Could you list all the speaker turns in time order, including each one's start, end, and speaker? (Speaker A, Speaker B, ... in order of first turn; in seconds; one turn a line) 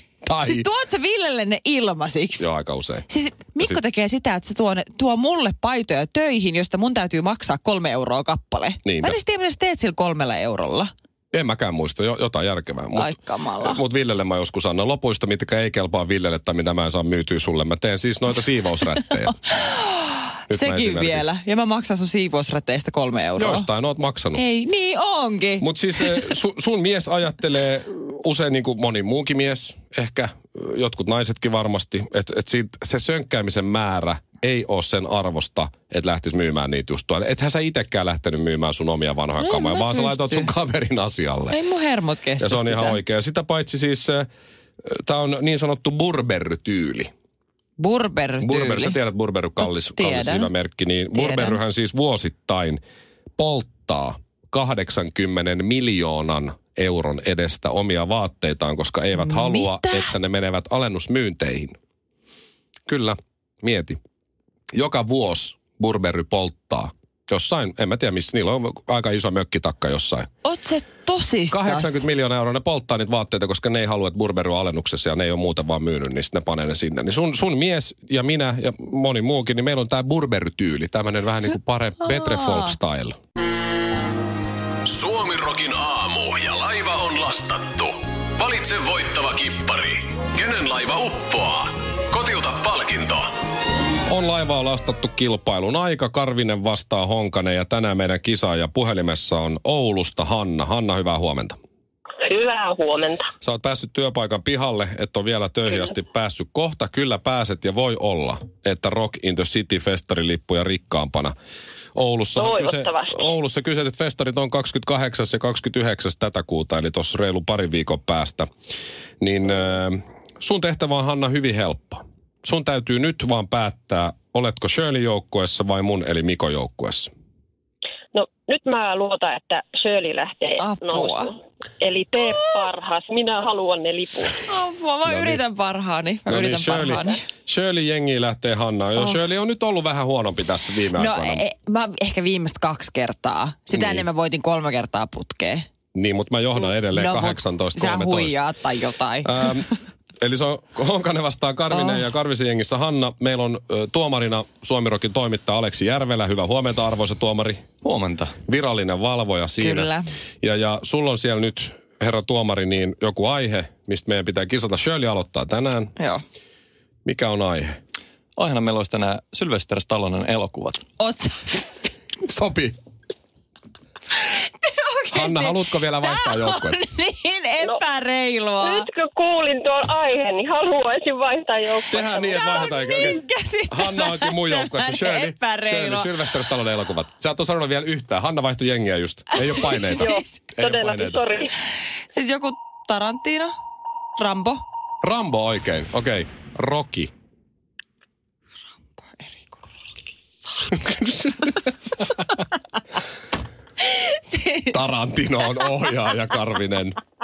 Speaker A: 0.3-0.7
Speaker B: 0.4-2.5
Speaker A: 2.4-3.0
Speaker B: 3.1-10.9
Speaker A: 8.8-9.2
Speaker A: 11.3-19.4
Speaker B: 12.9-13.8
Speaker B: 18.8-23.7
Speaker A: 20.5-21.3
Speaker A: 23.4-24.4
Speaker B: 24.3-26.3
Speaker A: 25.6-41.6
Speaker B: 39.4-40.5
Speaker B: 41.5-43.0
Speaker A: 42.4-44.3
Speaker A: 44.8-47.1
Speaker B: 47.8-49.0
Speaker A: 48.4-52.8
Speaker B: 49.6-50.5
Speaker B: 51.1-51.6
Speaker A: 53.4-61.8
Speaker B: 59.1-60.1
Speaker A: 62.9-64.0
Speaker A: 64.7-70.3
Speaker B: 70.4-72.0
Speaker A: 71.5-83.2
Speaker B: 82.1-82.7
Speaker C: 84.8-93.3
Speaker A: 94.1-101.6
Speaker D: 102.2-103.3
Speaker A: 103.4-111.3
Speaker A: 112.0-118.5
Speaker D: 112.4-113.3
Speaker A: 119.2-127.1
Speaker D: 128.1-134.4
Speaker B: 130.6-131.3
Speaker B: 132.2-132.7
Speaker B: 134.5-137.2
Speaker A: 135.1-135.4
Speaker A: 136.3-141.4
Speaker B: 138.9-139.2
Speaker B: 140.9-145.7
Speaker A: 143.7-144.1
Speaker A: 145.9-148.4
Speaker B: 146.6-149.7
Speaker A: 149.2-149.7
Speaker A: 150.2-157.7
Speaker B: 151.7-152.1
Speaker E: 157.8-158.4
Speaker A: 158.4-165.9
Speaker B: 159.6-160.1
Speaker A: 167.1-167.8
Speaker E: 168.4-170.8
Speaker B: 171.0-171.9
Speaker A: 172.2-172.8
Speaker B: 174.6-178.9
Speaker A: 175.1-176.8
Speaker D: 178.6-183.2
Speaker A: 181.9-183.2
Speaker B: 182.3-186.5
Speaker A: 183.7-191.2
Speaker B: 189.3-190.4
Speaker D: 189.8-191.5
Speaker B: 192.1-193.5
Speaker B: 194.2-194.6
Speaker A: 195.0-197.1
Speaker B: 199.1-199.6
Speaker A: 200.7-202.2
Speaker B: 203.8-204.8
Speaker A: 204.7-207.0
Speaker B: 205.4-206.0